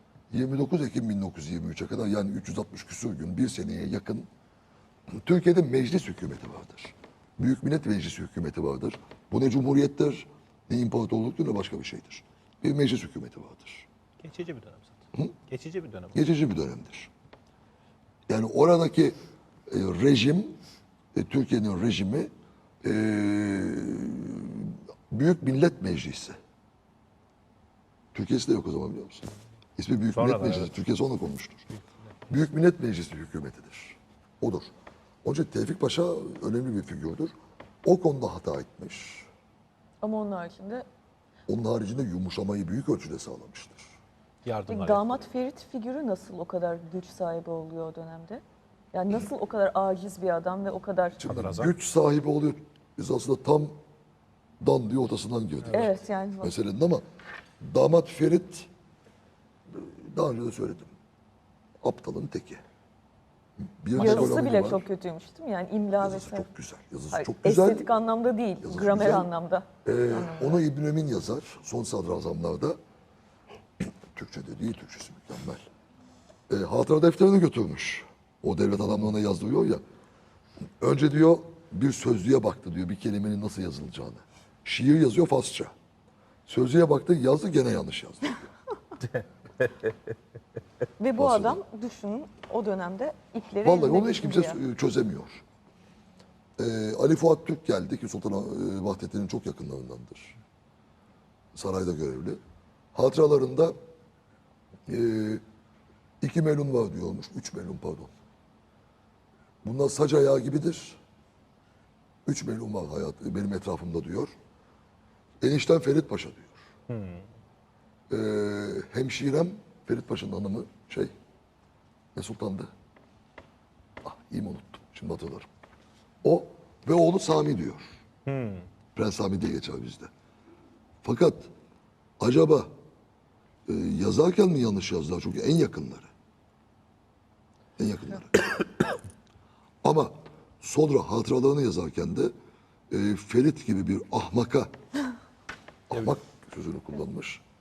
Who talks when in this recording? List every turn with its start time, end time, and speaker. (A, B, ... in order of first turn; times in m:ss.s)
0:00.3-0:04.3 A
0:05.1-0:13.9 A
0:14.2-0:16.2 B
0:16.1-0:17.1 A
0:18.3-0:19.2 A
0:19.7-0:20.6 A
0:21.1-0:22.3 A
0:22.8-0:26.4 A
0:28.1-0:31.7 A
0:30.1-0:30.7 B
0:32.3-0:34.7 A
0:35.2-0:39.3 A
0:40.0-0:40.8 C
0:41.5-0:43.9 A
0:44.4-0:45.2 B
0:44.7-0:48.4 C
0:48.9-0:51.2 C
0:51.2-0:53.7 A
0:51.2-0:51.7 B
0:54.6-0:57.0 A
0:55.7-0:56.5 C
0:57.6-0:58.7 A
0:59.7-1:00.9 A
1:01.8-1:02.6 A
1:03.6-1:04.8 A
1:04.0-1:06.5 C
1:04.0-1:04.4 B
1:06.0-1:07.9 A
1:07.1-1:10.6 C
1:08.6-1:09.3 A
1:09.8-1:12.8 A
1:14.1-1:15.6 A
1:16.5-1:19.8 A
1:20.8-1:25.7 A
1:26.5-1:28.5 A
1:31.0-1:34.6 C
1:31.2-1:31.6 A
1:33.6-1:35.4 A
1:36.6-1:40.4 A
1:41.5-1:42.4 A
1:42.9-1:43.7 A
1:44.9-1:45.4 A
1:46.2-1:48.1 A
1:49.6-1:51.0 A
1:52.2-1:54.3 A
1:55.4-1:56.6 A
1:56.9-1:57.2 B
1:58.1-2:01.1 A
2:02.1-2:02.7 A
2:04.0-2:05.5 A
2:06.2-2:08.0 A
2:08.2-2:08.7 B
2:08.9-2:10.1 A
2:11.0-2:11.5 A
2:12.2-2:12.7 A
2:13.7-2:16.1 A
2:17.8-2:18.7 A
2:19.8-2:22.3 A
2:22.9-2:24.7 A
2:25.9-2:27.4 A